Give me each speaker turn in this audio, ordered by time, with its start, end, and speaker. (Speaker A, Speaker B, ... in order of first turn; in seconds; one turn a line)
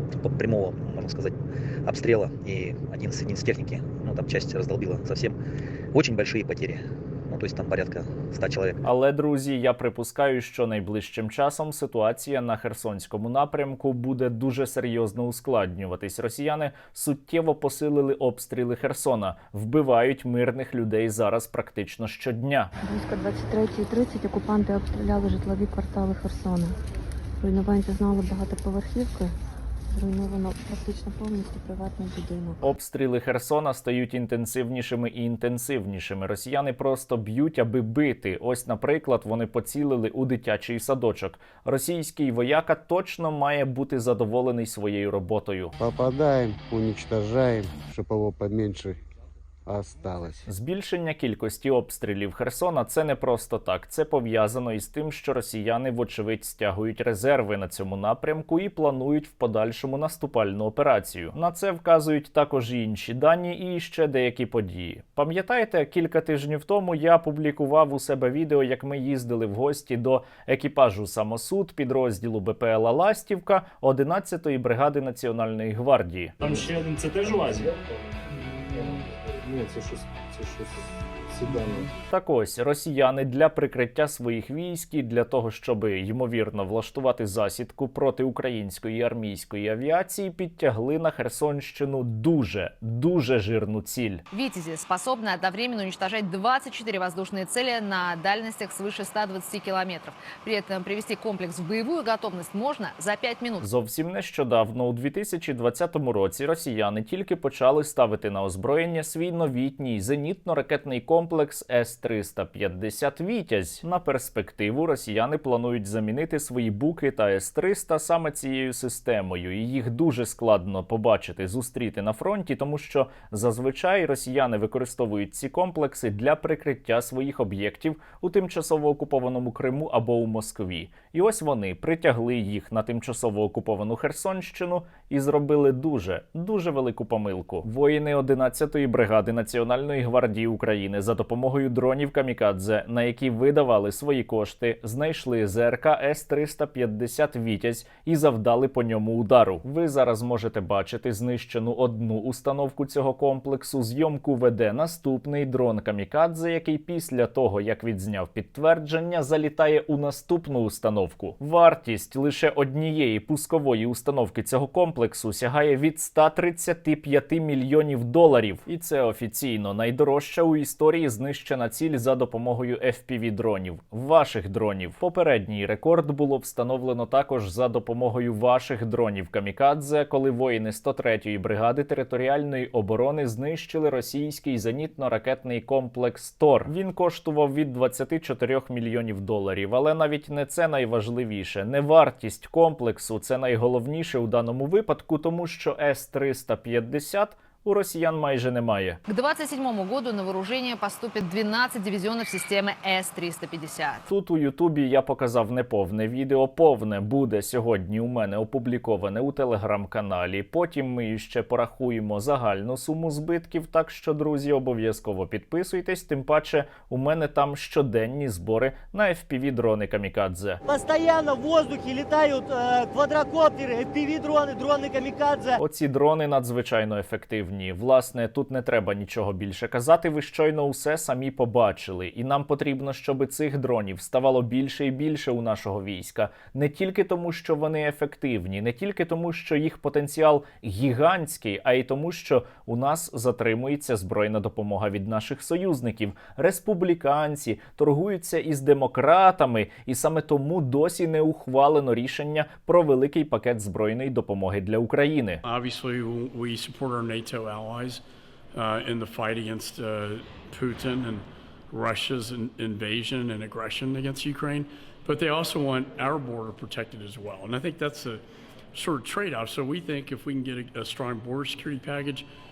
Speaker A: 0.1-5.4
Speaker A: 5.9-8.8
Speaker B: 8.8-22.7
Speaker C: 22.8-26.7
Speaker C: 27.4-29.3
Speaker C: 29.9-32.6
Speaker B: 32.6-45.7
Speaker D: 45.8-49.0
Speaker D: 49.7-50.5
Speaker B: 50.5-76.3
Speaker E: 76.4-78.1
Speaker E: 78.7-81.9
Speaker B: 82.1-94.2
Speaker F: 94.3-103.6
Speaker B: 103.6-199.0
Speaker F: 199.1-204.0
Speaker B: 204.1-220.6
Speaker G: 220.7-225.6
Speaker B: 225.6-255.4
Speaker H: 255.4-258.0
Speaker H: 258.5-268.2
Speaker H: 268.7-272.2